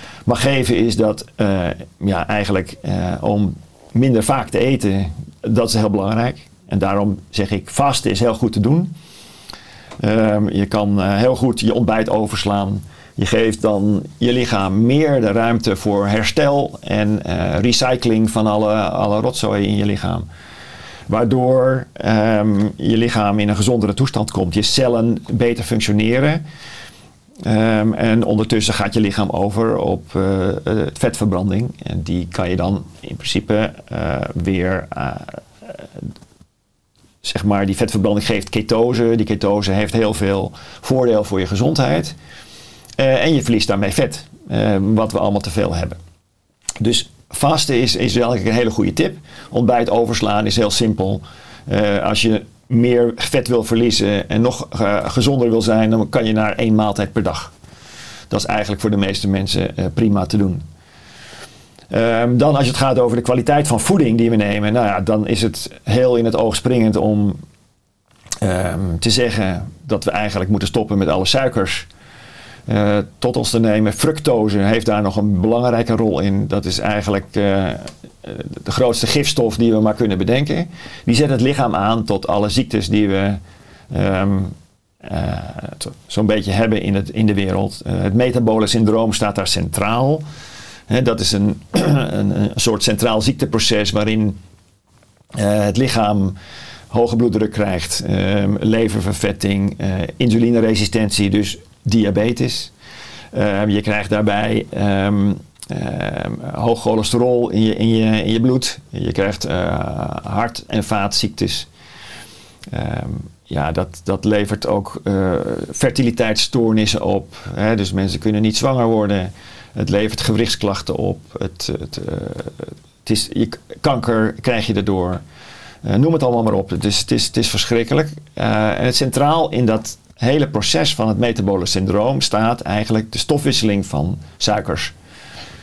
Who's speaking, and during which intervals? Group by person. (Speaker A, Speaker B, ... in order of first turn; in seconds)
Speaker A: 0.3-8.9, 10.0-20.3, 21.1-26.4, 27.4-36.0, 37.2-42.1, 43.0-46.0, 46.8-57.5, 58.3-60.6, 61.9-67.4, 68.4-71.9, 72.7-90.2, 90.9-94.4, 95.3-96.4, 96.9-102.7, 103.3-111.7, 112.7-125.2, 125.8-134.9